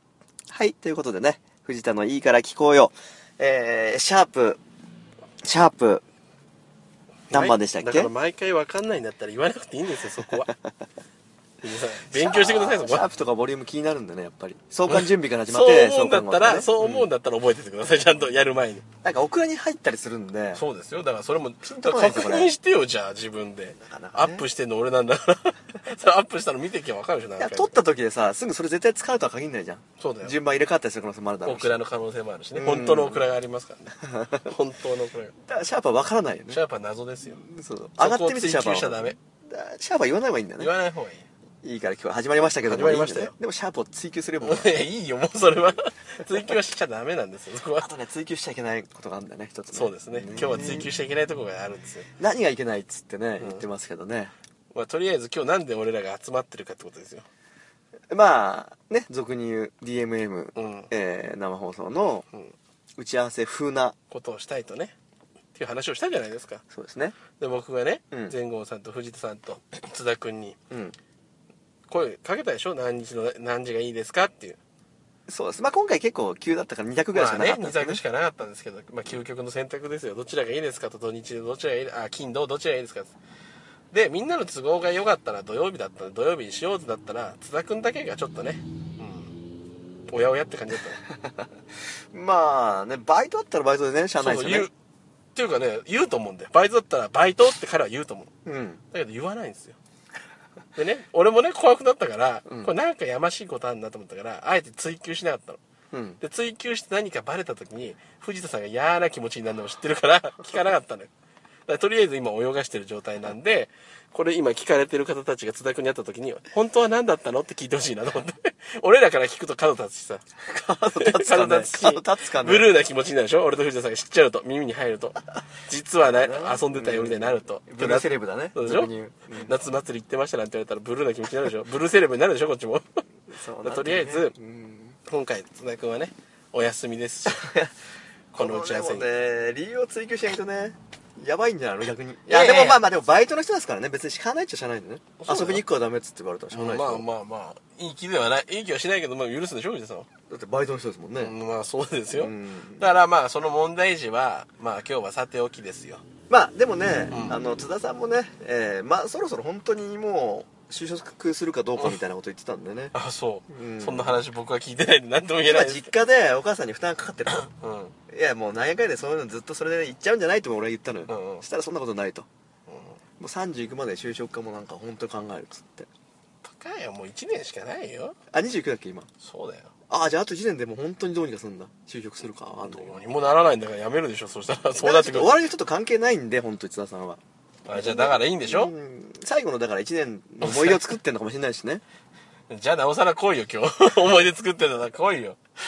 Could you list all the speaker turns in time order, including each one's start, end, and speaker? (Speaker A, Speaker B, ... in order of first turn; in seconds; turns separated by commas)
Speaker A: 0.5-4.6, Speaker A: 5.4-6.0, Speaker B: 7.3-10.5, Speaker A: 7.3-8.1, Speaker B: 11.6-13.1, Speaker A: 12.1-17.1, Speaker B: 14.9-18.8, Speaker A: 19.0-20.6, Speaker B: 20.6-27.8, Speaker A: 21.6-22.5, Speaker A: 23.8-24.4, Speaker A: 27.4-31.7, Speaker B: 30.0-30.4, Speaker B: 31.4-35.3, Speaker A: 32.5-33.2, Speaker A: 34.1-34.5, Speaker A: 35.5-36.6, Speaker B: 36.5-37.4, Speaker A: 37.4-40.7, Speaker B: 38.0-39.2, Speaker B: 40.6-41.3, Speaker A: 41.6-44.7, Speaker B: 42.7-43.3, Speaker B: 44.4-47.9, Speaker A: 47.8-50.9, Speaker B: 49.7-52.1, Speaker A: 52.2-54.3, Speaker B: 54.7-57.3, Speaker A: 58.1-62.3, Speaker B: 60.5-60.9, Speaker A: 63.0-64.0, Speaker B: 64.1-64.9, Speaker B: 65.5-66.6, Speaker A: 66.7-67.2, Speaker B: 67.4-70.6, Speaker A: 70.7-71.0, Speaker B: 71.9-74.6, Speaker A: 75.3-78.0, Speaker B: 77.1-83.2, Speaker B: 83.9-89.3, Speaker B: 90.1-91.0, Speaker A: 92.1-94.7, Speaker B: 94.2-94.7, Speaker B: 95.3-98.3, Speaker A: 98.5-98.8, Speaker B: 98.9-99.8, Speaker B: 100.8-105.6, Speaker A: 102.5-102.7, Speaker A: 105.9-106.2, Speaker B: 106.2-111.1, Speaker B: 111.7-120.2, Speaker A: 120.5-122.7, Speaker B: 121.0-128.9, Speaker A: 126.1-129.5, Speaker B: 129.4-133.0, Speaker A: 133.3-135.0, Speaker B: 133.6-134.3, Speaker B: 135.1-137.5, Speaker A: 137.3-137.7, Speaker B: 138.3-139.1, Speaker A: 138.4-147.1, Speaker B: 142.3-142.8, Speaker B: 145.2-145.6, Speaker B: 146.5-150.1, Speaker A: 150.3-151.3, Speaker B: 151.2-156.0, Speaker A: 152.1-152.9, Speaker A: 156.3-162.9, Speaker B: 157.1-157.4, Speaker B: 162.9-165.9, Speaker A: 163.5-164.2, Speaker A: 165.5-167.5, Speaker B: 167.5-167.9, Speaker A: 168.1-172.3, Speaker B: 171.1-171.4, Speaker B: 172.7-173.0, Speaker A: 173.2-175.9, Speaker B: 176.4-178.2, Speaker A: 178.3-179.1, Speaker B: 179.2-179.7, Speaker A: 179.9-183.0, Speaker B: 182.7-185.4, Speaker A: 184.8-187.2, Speaker B: 187.7-188.7, Speaker A: 187.7-191.8, Speaker B: 190.4-190.8, Speaker B: 192.5-195.4